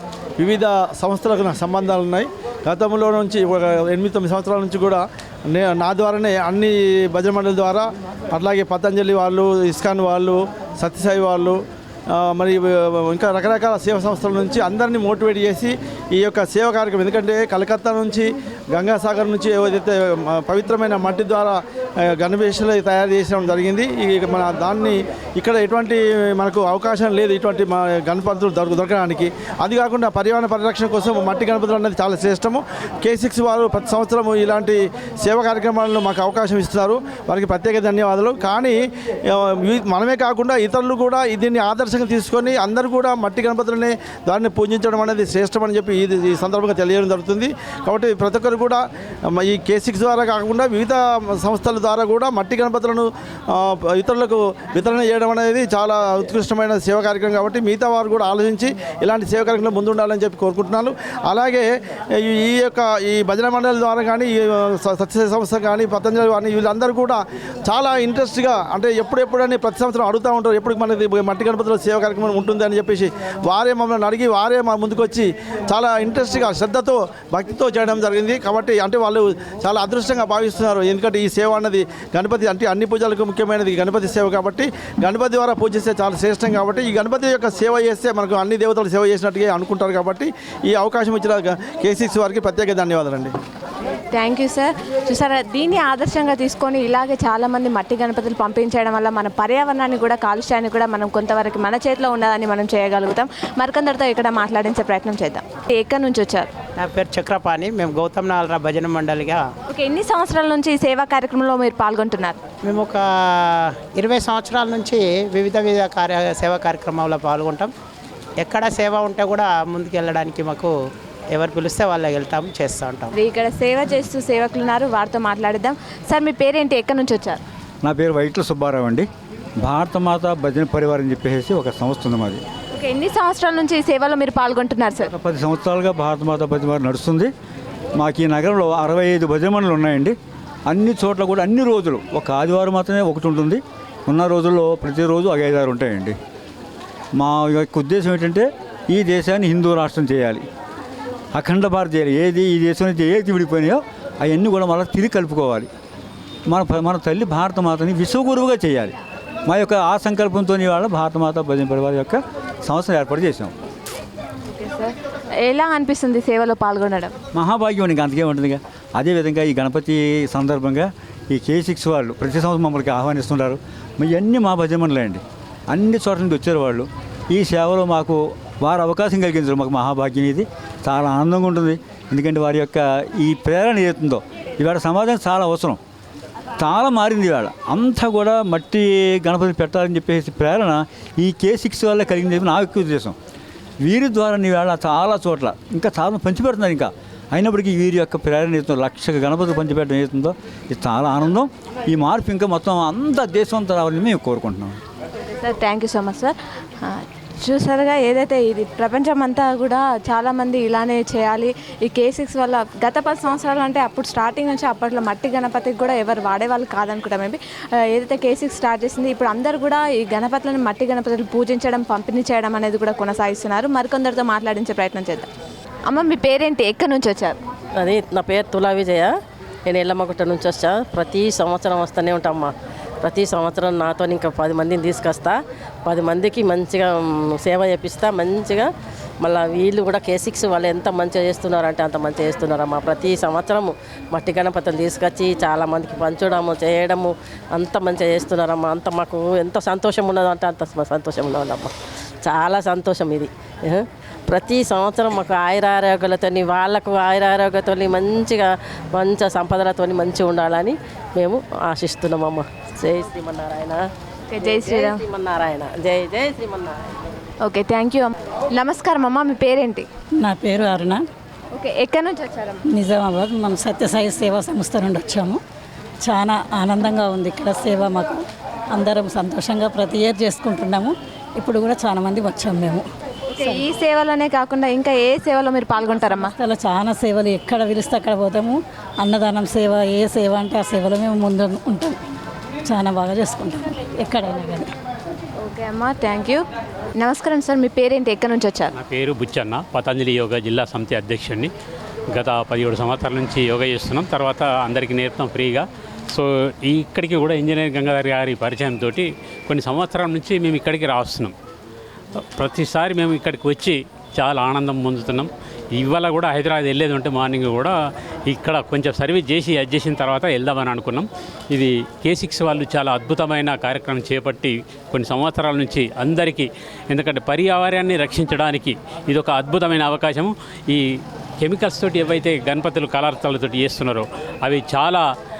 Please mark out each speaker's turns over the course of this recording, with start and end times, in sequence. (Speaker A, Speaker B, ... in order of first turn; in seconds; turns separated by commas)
Speaker A: 0.4-93.3, Speaker B: 94.1-106.5, Speaker C: 106.8-109.4, Speaker B: 109.7-112.4, Speaker C: 112.6-117.7, Speaker C: 118.4-120.7, Speaker C: 121.3-123.1, Speaker B: 123.1-127.4, Speaker D: 127.8-129.1, Speaker D: 129.6-132.4, Speaker B: 132.7-135.1, Speaker D: 135.1-137.3, Speaker D: 138.0-140.2, Speaker D: 140.7-146.2, Speaker D: 147.2-150.4, Speaker D: 151.3-155.7, Speaker D: 156.5-158.9, Speaker D: 159.5-163.5, Speaker B: 164.5-167.1, Speaker D: 167.3-185.8, Speaker D: 186.6-193.2, Speaker D: 193.8-204.8, Speaker B: 205.3-225.3, Speaker B: 225.9-227.4, Speaker E: 227.8-229.1, Speaker E: 229.7-232.5, Speaker E: 233.0-238.7, Speaker E: 239.2-251.7, Speaker E: 252.2-263.8, Speaker B: 264.3-265.0, Speaker E: 264.4-266.7, Speaker B: 267.4-269.9, Speaker F: 270.2-271.0, Speaker B: 271.5-272.6, Speaker F: 272.7-275.4, Speaker F: 276.0-278.2, Speaker F: 278.7-282.8, Speaker B: 283.3-286.3, Speaker F: 286.4-291.9, Speaker F: 292.7-294.7, Speaker B: 295.4-296.4, Speaker B: 297.0-298.7, Speaker G: 298.8-301.5, Speaker G: 302.1-311.3, Speaker G: 312.4-335.0